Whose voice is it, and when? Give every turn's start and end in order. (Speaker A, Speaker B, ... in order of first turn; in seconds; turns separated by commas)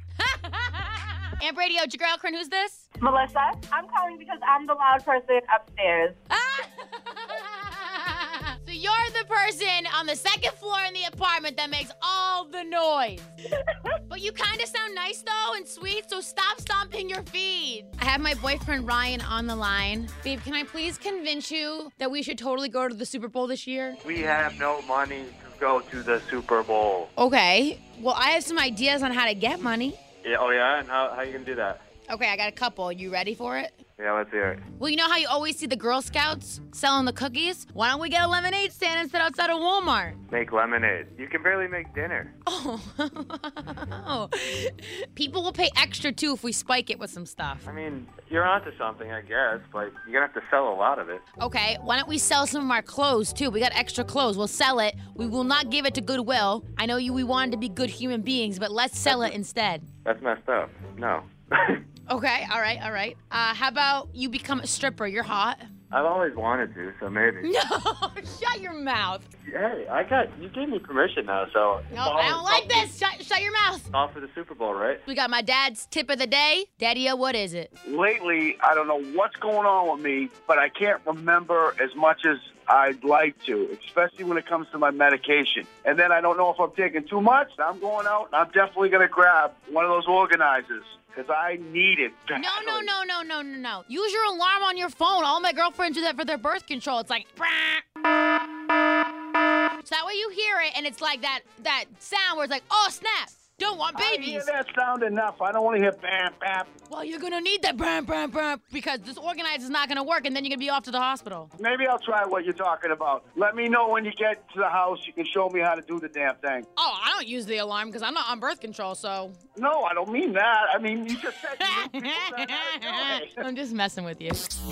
Speaker A: 0.2-2.9, Speaker B: 3.0-6.2, Speaker A: 6.3-13.3, Speaker A: 14.1-24.0, Speaker C: 24.0-27.1, Speaker A: 27.2-30.0, Speaker C: 30.2-31.8, Speaker A: 32.1-33.8, Speaker C: 34.0-34.6, Speaker A: 34.8-40.2, Speaker C: 40.3-42.3, Speaker A: 42.5-47.6, Speaker C: 47.6-51.2, Speaker A: 51.4-59.9, Speaker C: 59.1-59.4, Speaker C: 60.0-61.8, Speaker A: 62.1-65.7, Speaker C: 65.9-67.5, Speaker A: 67.4-69.3, Speaker C: 69.5-72.9, Speaker A: 71.9-73.9, Speaker C: 73.9-75.0, Speaker A: 75.1-77.7, Speaker D: 77.9-92.9, Speaker A: 92.3-97.8, Speaker A: 99.8-104.5, Speaker D: 104.0-106.7, Speaker A: 106.9-111.5, Speaker D: 111.6-116.7, Speaker A: 116.8-119.4, Speaker D: 119.6-123.4, Speaker A: 121.6-124.5